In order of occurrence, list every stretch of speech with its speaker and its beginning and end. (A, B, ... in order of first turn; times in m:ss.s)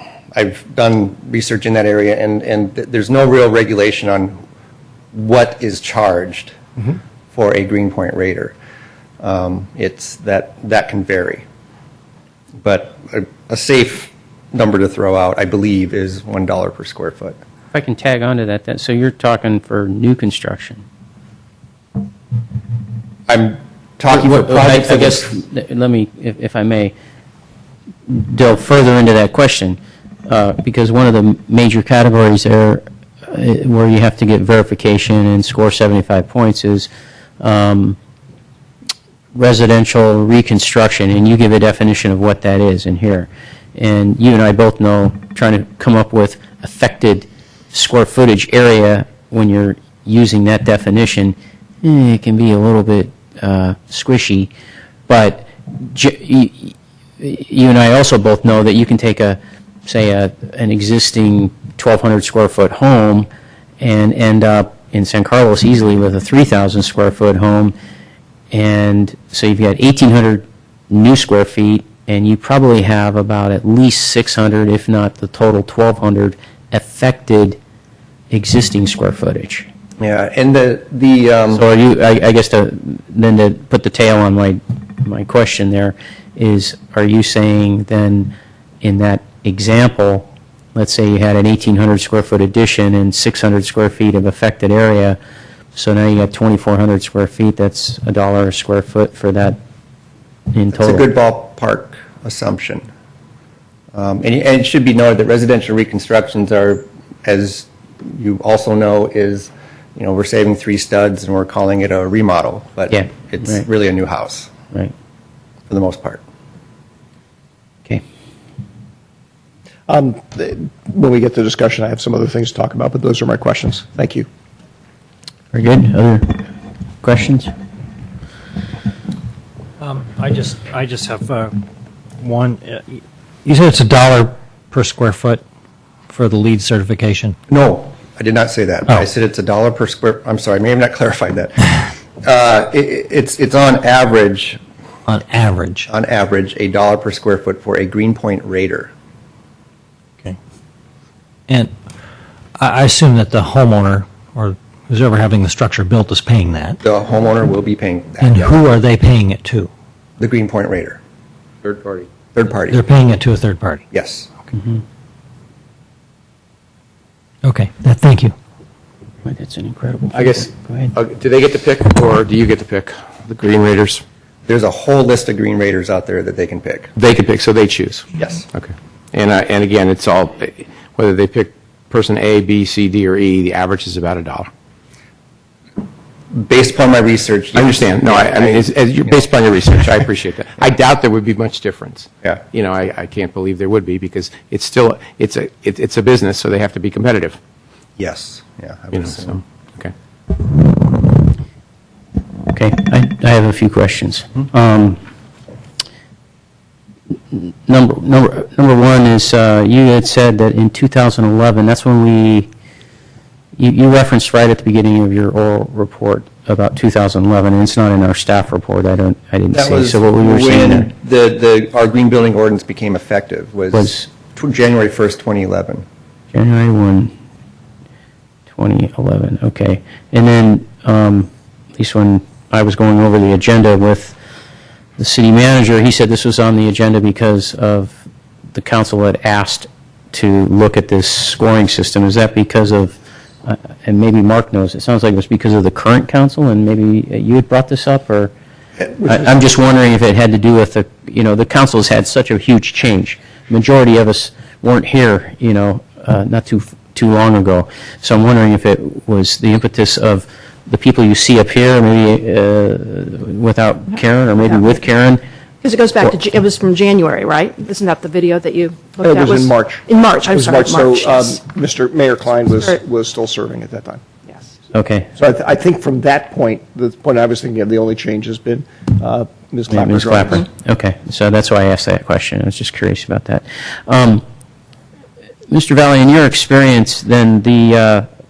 0:00.3-0:04.4 A
0:05.1-0:06.6 A
0:07.3-0:08.5 A
0:09.2-0:11.4 A
0:12.6-0:17.4 A
0:17.7-0:20.8 B
0:23.3-0:25.4 A
0:24.1-0:26.9 B
0:28.1-0:36.9 B
0:37.4-0:38.0 B
0:39.3-0:54.5 B
0:55.1-1:03.3 B
1:03.8-1:07.7 B
1:08.5-1:17.6 B
1:18.3-1:19.7 B
1:20.0-1:21.6 A
1:21.5-1:28.3 B
1:28.8-1:35.2 B
1:35.7-1:39.6 B
1:40.5-1:41.1 B
1:40.7-1:42.8 A
1:43.9-1:54.5 A
1:52.9-1:53.6 B
1:55.7-1:56.2 A
1:59.9-2:04.2 C
2:05.5-2:06.4 B
2:07.0-2:07.5 B
2:09.8-2:11.6 D
2:12.2-2:15.4 D
2:16.1-2:17.4 D
2:17.5-2:21.6 A
2:22.2-2:24.6 A
2:25.1-2:25.9 D
2:25.9-2:28.9 A
2:32.6-2:36.8 D
2:36.8-2:38.5 A
2:38.2-2:39.7 D
2:40.2-2:41.0 A
2:41.7-2:42.0 E
2:42.2-2:42.8 A
2:42.7-2:43.8 D
2:43.9-2:44.3 A
2:47.4-2:48.3 D
2:49.2-2:50.9 B
2:50.1-2:54.0 E
2:54.5-2:56.9 A
2:57.0-3:04.5 E
2:58.1-2:58.4 A
3:06.3-3:09.2 A
3:07.5-3:17.4 E
3:18.0-3:19.4 A
3:18.9-3:19.9 E
3:22.5-3:25.0 B
3:27.3-3:32.5 B
3:33.6-3:40.9 B
3:39.5-3:45.8 A
3:43.7-3:44.1 B
3:46.3-3:47.1 B
3:48.5-3:54.2 B
3:55.0-3:58.0 B
3:58.5-4:08.3 B
4:09.0-4:25.2 B
4:24.4-4:24.7 F
4:25.6-4:31.4 F
4:29.0-4:34.0 C
4:34.7-4:35.1 B
4:35.2-4:40.4 C
4:39.7-4:44.2 B
4:45.5-4:48.0 B